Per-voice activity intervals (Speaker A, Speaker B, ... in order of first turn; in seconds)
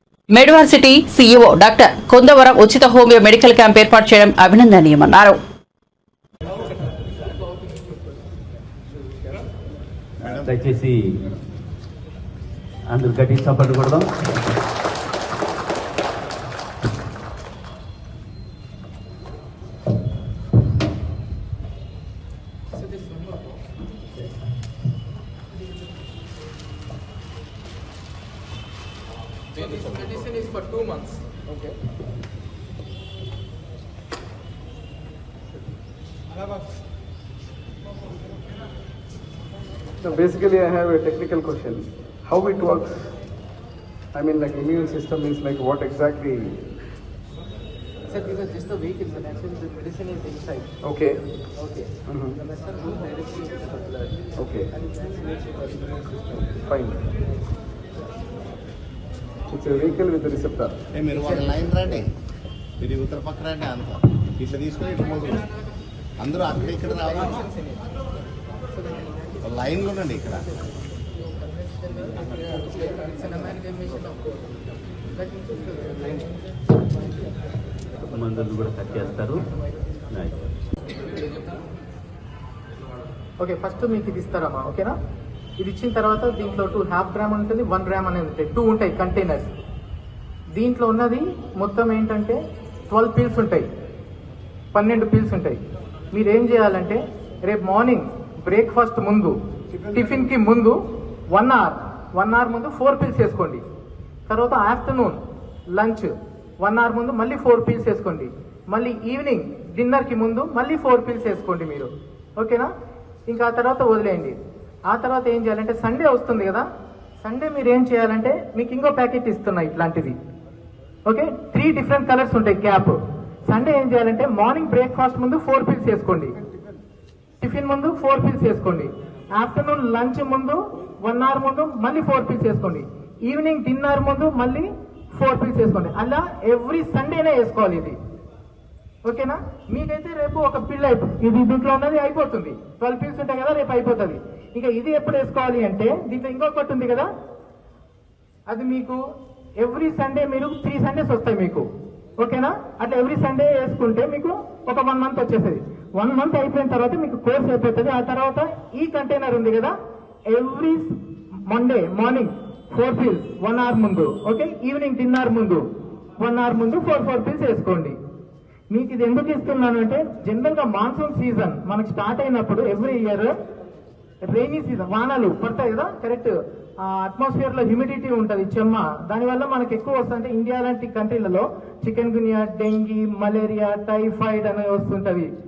Speaker A: 0.3-5.4
Speaker B: 10.2-11.2, 12.9-14.1, 78.0-79.5, 80.1-80.4
Speaker C: 22.8-23.6, 29.6-31.4, 48.1-50.7, 51.6-51.9, 52.6-53.8, 71.4-74.4, 75.2-76.2, 83.4-85.0, 85.6-89.5, 90.5-93.7, 94.7-95.6, 96.1-99.4, 99.9-103.6, 104.3-105.2, 105.7-112.7, 113.3-114.4, 114.9-116.7, 117.2-120.2, 121.1-123.0, 123.5-126.3, 127.4-138.0, 139.0-147.1, 148.5-149.0, 149.6-151.7, 152.2-159.7, 160.3-160.9, 161.5-165.7, 166.2-168.0, 168.7-173.3, 174.3-185.3
Speaker D: 40.0-43.0, 44.1-46.6, 50.8-51.2, 52.1-52.4, 54.4-54.7, 56.6-57.0, 59.5-60.8
Speaker E: 60.9-62.1, 62.8-65.5, 66.2-67.4, 69.4-70.5